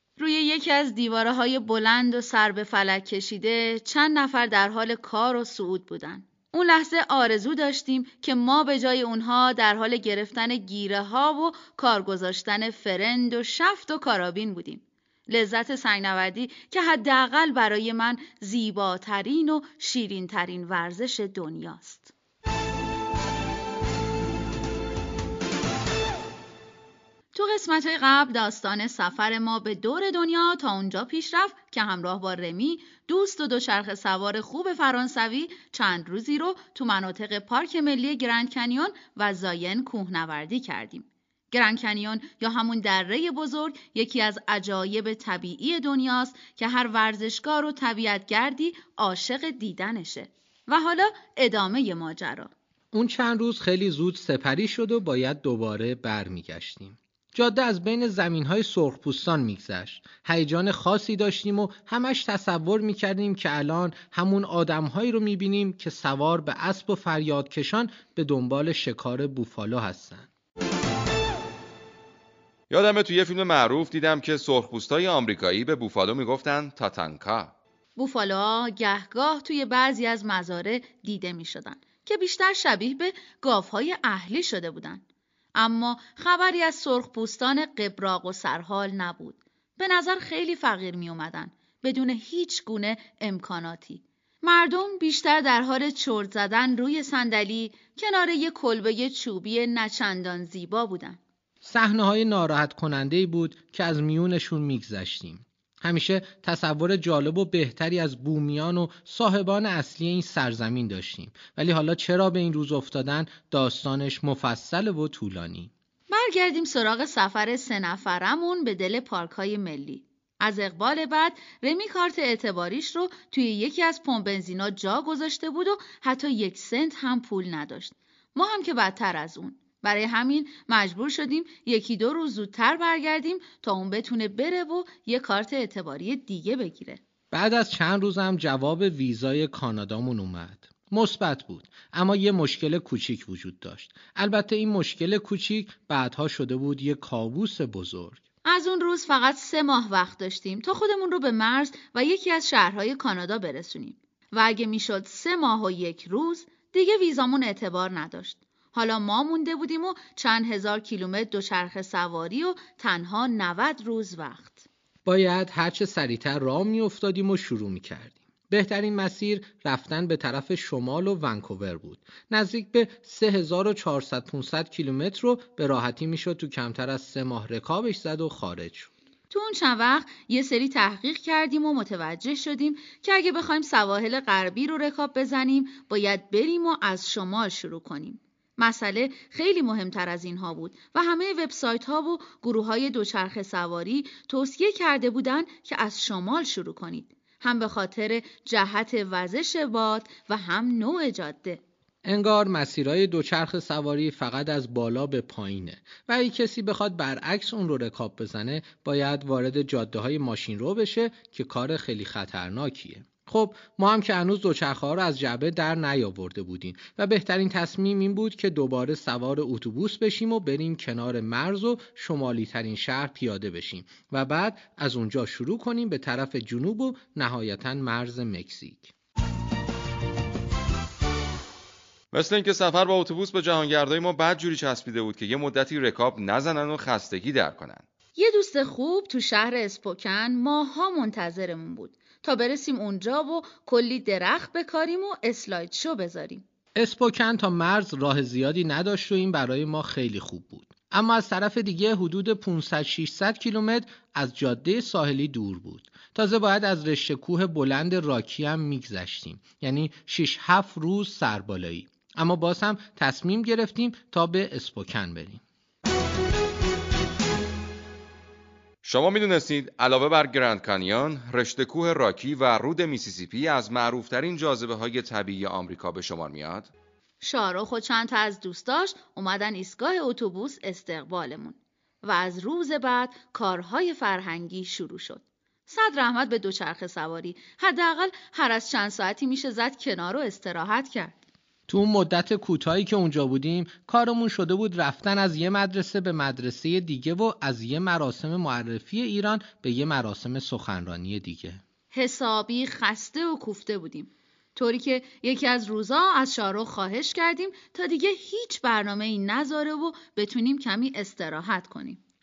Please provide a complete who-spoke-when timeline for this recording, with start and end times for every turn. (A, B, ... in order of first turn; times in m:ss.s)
0:00.2-0:22.1 A
0:27.3-0:52.5 A
0:52.9-1:10.3 B
1:12.7-1:17.5 C
1:18.0-1:25.0 A
1:25.6-1:41.2 A
1:41.6-1:55.7 B
1:56.1-2:17.0 A
2:17.3-2:28.2 B
2:28.4-2:44.7 A
2:45.1-2:58.9 B
2:59.3-3:21.6 A
3:22.0-3:48.9 B
3:52.1-3:57.8 C
3:58.2-4:06.4 A
4:06.8-4:25.4 B
4:28.8-4:36.7 C
4:37.2-4:51.2 A
4:51.7-5:01.6 B
5:01.9-5:12.0 A